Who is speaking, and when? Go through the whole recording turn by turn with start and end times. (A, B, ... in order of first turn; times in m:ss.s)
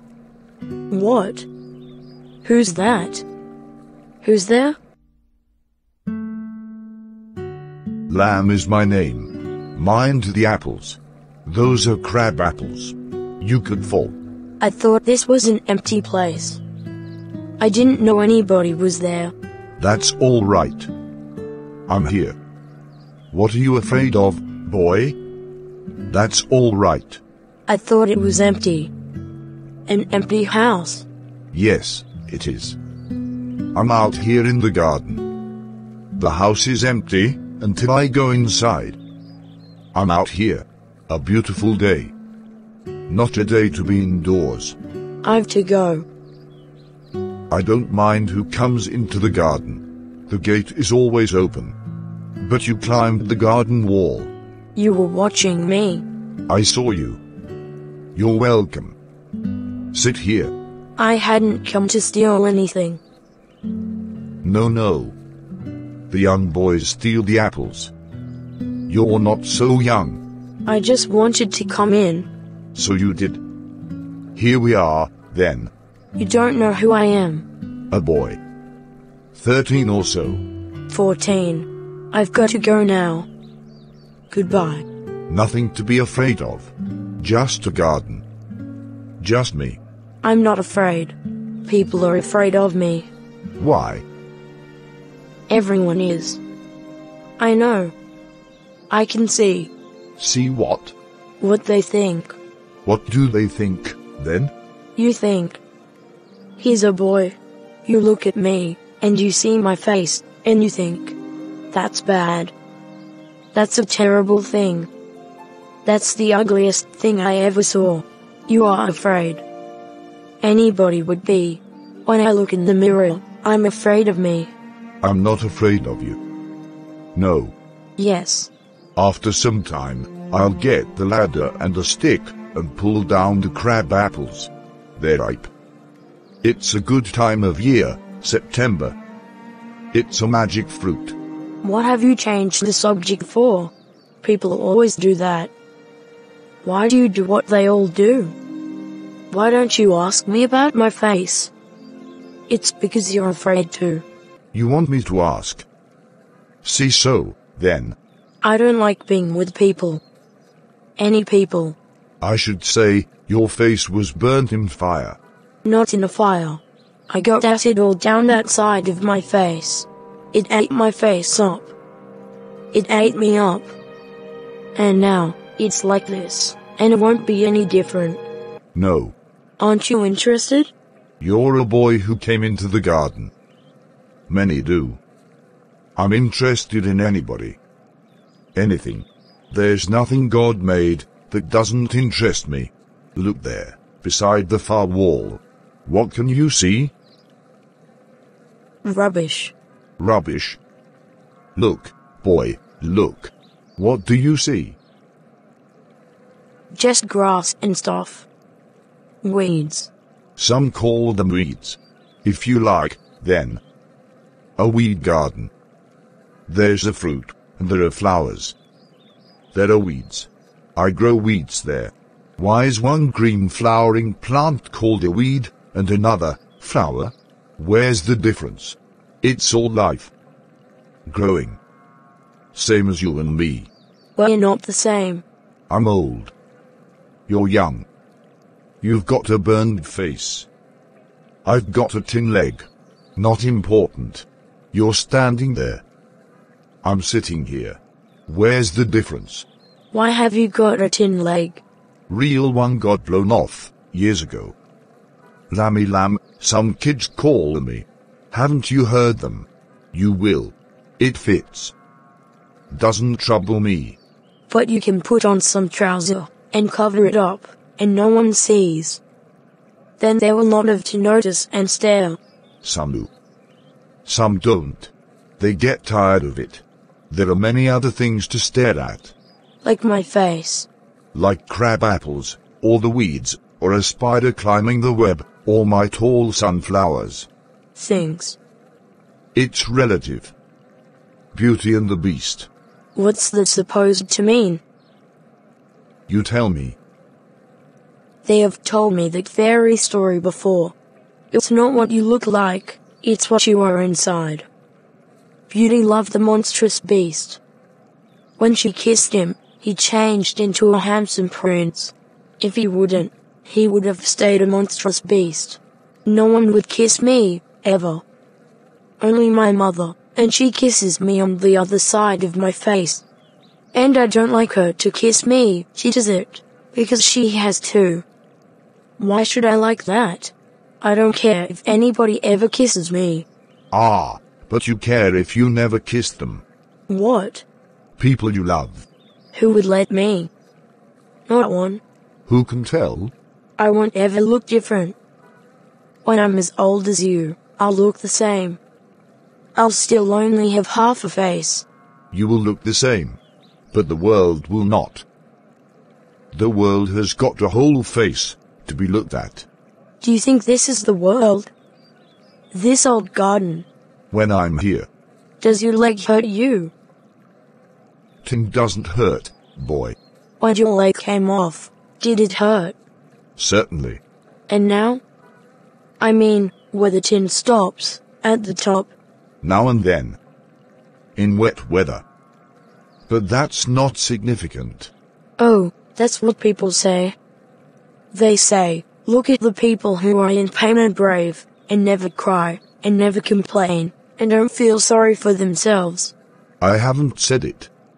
0:00.9-0:01.5 A
0:02.4-0:03.2 A
0:04.2-0:04.8 A
0:08.1-0:14.2 B
0:14.6-0:16.6 A
0:17.6-0:19.3 A
0:19.8-0:20.9 B
0:21.9-0:22.4 B
0:23.3-0:25.2 B
0:26.0-0:27.2 B
0:27.7-0:28.9 A
0:29.9-0:31.1 A
0:31.5-0:32.8 B
0:33.7-0:35.4 B
0:36.2-0:39.0 B
0:39.9-0:42.1 B
0:43.1-0:44.8 B
0:45.2-0:46.0 A
0:47.5-0:51.8 B
0:52.4-0:54.3 B
0:54.8-0:56.0 A
0:56.5-0:57.2 B
0:58.2-0:59.0 B
0:59.9-1:00.5 B
1:01.0-1:03.0 A
1:04.4-1:05.2 B
1:06.1-1:07.9 B
1:08.9-1:10.2 B
1:10.7-1:12.3 A
1:12.8-1:13.4 B
1:14.4-1:15.7 B
1:16.2-1:17.4 A
1:17.9-1:18.4 B
1:19.3-1:20.4 B
1:20.9-1:23.3 A
1:24.3-1:24.8 A
1:25.3-1:28.2 B
1:29.2-1:29.8 B
1:30.2-1:33.1 A
1:33.6-1:34.0 B
1:35.5-1:36.4 A
1:37.4-1:37.9 A
1:38.9-1:39.7 A
1:40.2-1:41.0 B
1:41.4-1:42.4 A
1:42.8-1:44.5 B
1:45.0-1:45.6 A
1:46.6-1:51.2 A
1:51.7-1:52.5 A
1:53.5-1:54.9 A
1:55.8-1:59.4 A
2:00.4-2:04.5 A
2:05.0-2:06.2 B
2:07.2-2:07.5 B
2:08.0-2:08.5 A
2:09.0-2:15.5 B
2:16.4-2:19.0 B
2:19.9-2:21.2 B
2:21.6-2:23.7 A
2:24.2-2:25.5 A
2:26.6-2:28.4 A
2:29.3-2:31.5 A
2:32.5-2:34.0 A
2:34.5-2:35.7 B
2:36.6-2:38.0 B
2:38.4-2:40.0 A
2:41.0-2:41.8 A
2:42.2-2:45.2 B
2:45.6-2:51.7 A
2:52.7-2:53.7 A
2:54.8-2:58.2 A
2:58.8-2:59.2 B
2:59.6-3:00.7 A
3:01.2-3:03.3 B
3:04.3-3:05.0 B
3:06.0-3:07.6 B
3:08.6-3:16.9 B
3:18.8-3:19.5 A
3:20.0-3:20.6 B
3:21.6-3:24.8 B
3:26.7-3:28.3 A
3:29.2-3:29.9 A
3:30.4-3:33.6 B
3:34.6-3:35.5 B
3:36.5-3:38.6 B
3:39.5-3:50.1 B
3:51.1-3:51.6 B
3:52.5-3:53.7 B
3:54.2-3:55.2 A
3:55.7-3:56.3 B
3:57.3-3:57.9 B
3:58.8-4:00.5 B
4:01.4-4:05.8 B
4:06.8-4:09.5 B
4:09.9-4:11.6 A
4:12.1-4:14.6 B
4:15.5-4:21.7 B
4:22.7-4:24.0 B
4:24.5-4:29.0 A
4:30.0-4:32.2 A
4:32.6-4:33.1 B
4:34.0-4:39.1 B
4:39.6-4:40.7 A
4:41.1-4:47.3 B
4:47.8-4:48.4 A
4:49.3-4:50.3 B
4:51.3-4:52.5 B
4:53.0-4:54.6 A
4:56.1-4:56.8 B
4:58.2-5:00.7 A
5:01.3-5:04.5 A
5:05.5-5:07.4 A
5:08.4-5:18.0 A
5:19.0-5:23.0 A
5:23.7-5:28.0 A
5:29.0-5:33.3 A
5:33.7-5:36.4 B
5:36.9-5:37.4 A
5:38.0-5:38.9 B
5:39.3-5:40.3 A
5:41.3-5:41.8 A
5:42.3-5:43.1 B
5:43.6-5:45.0 A
5:46.0-5:48.6 A
5:49.6-5:51.7 A
5:52.1-5:53.2 B
5:53.7-5:55.0 B
5:56.3-5:59.5 B
6:00.0-6:01.5 A
6:02.5-6:03.7 A
6:04.1-6:04.9 B
6:05.4-6:06.7 A
6:08.2-6:10.0 B
6:10.4-6:12.8 A
6:13.4-6:14.0 B
6:14.5-6:15.0 A
6:16.0-6:18.9 A
6:19.4-6:20.2 B
6:21.2-6:22.0 B
6:23.1-6:24.9 B
6:25.4-6:27.2 A
6:28.1-6:36.1 A
6:36.6-6:37.7 B